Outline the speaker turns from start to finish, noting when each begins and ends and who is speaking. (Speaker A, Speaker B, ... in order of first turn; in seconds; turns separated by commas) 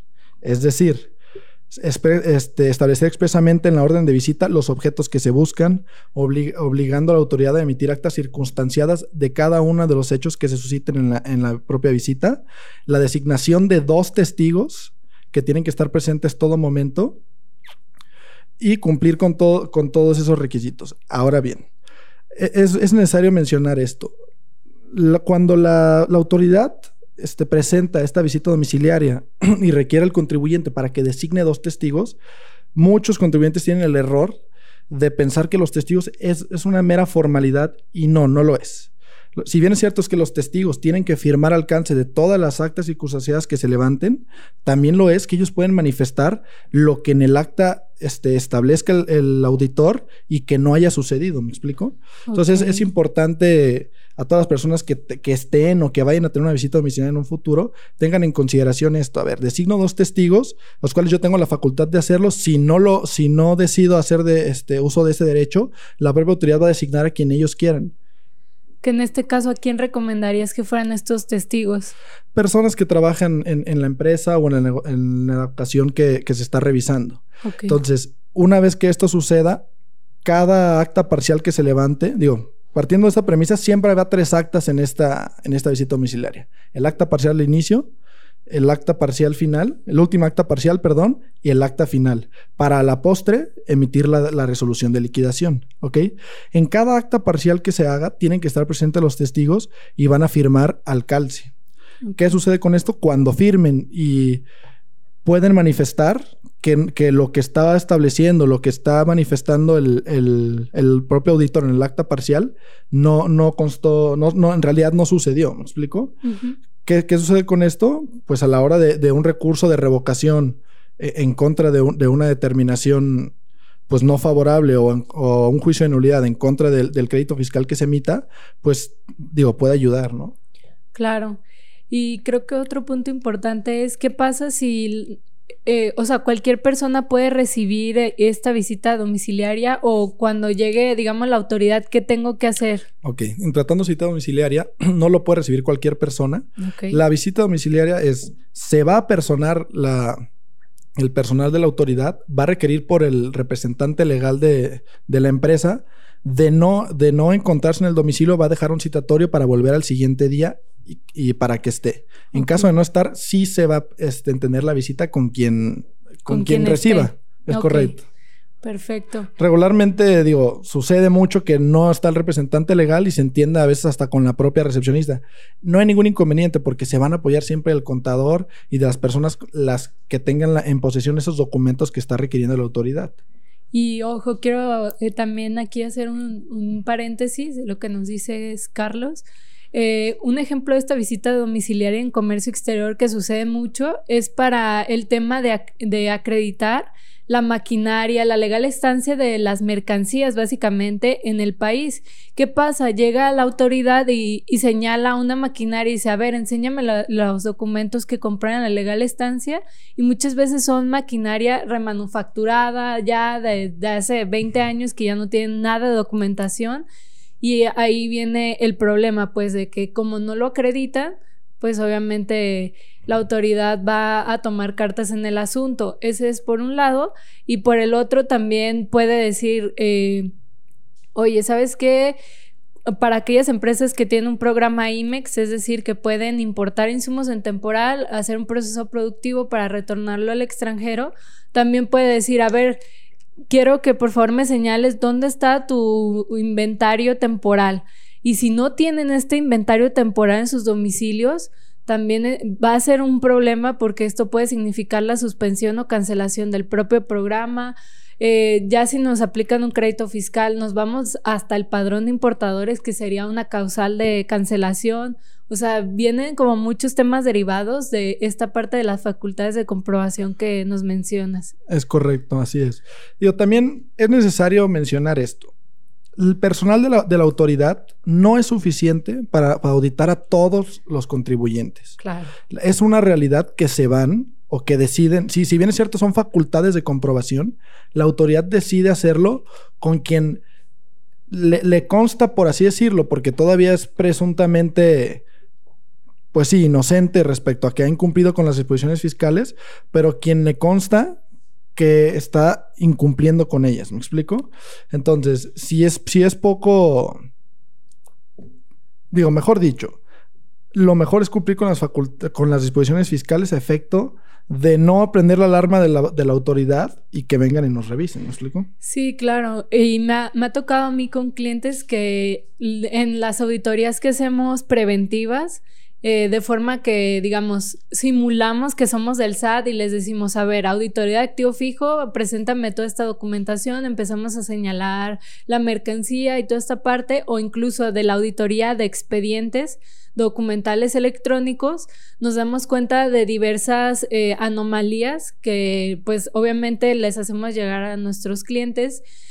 Speaker A: 0.4-1.1, Speaker A: 1.7-17.2, Speaker A: 18.6-21.7, Speaker A: 22.3-24.1, Speaker A: 24.9-32.2, Speaker A: 32.8-34.4, Speaker A: 34.9-67.9, Speaker B: 52.3-52.9, Speaker B: 68.8-71.9, Speaker A: 72.3-79.7, Speaker B: 77.4-77.8, Speaker A: 80.2-87.9, Speaker A: 88.5-101.5, Speaker B: 102.1-102.3, Speaker A: 102.2-104.4, Speaker A: 105.2-116.2, Speaker B: 116.2-116.6, Speaker A: 116.8-123.3, Speaker A: 123.9-130.4, Speaker B: 130.9-142.9, Speaker A: 143.0-150.2, Speaker B: 146.6-147.0, Speaker A: 151.0-168.0, Speaker B: 162.3-162.7, Speaker B: 166.3-168.0, Speaker B: 168.6-169.3, Speaker A: 169.4-183.2, Speaker B: 183.7-216.8, Speaker B: 217.4-230.3, Speaker B: 231.2-232.2, Speaker B: 232.9-242.8, Speaker B: 243.5-271.5, Speaker A: 271.7-275.5, Speaker A: 276.2-282.0, Speaker B: 282.0-282.4, Speaker A: 282.5-290.4, Speaker A: 291.3-295.2, Speaker A: 296.3-301.2, Speaker A: 301.8-307.2, Speaker A: 309.1-310.0, Speaker A: 310.7-318.7, Speaker B: 318.8-349.0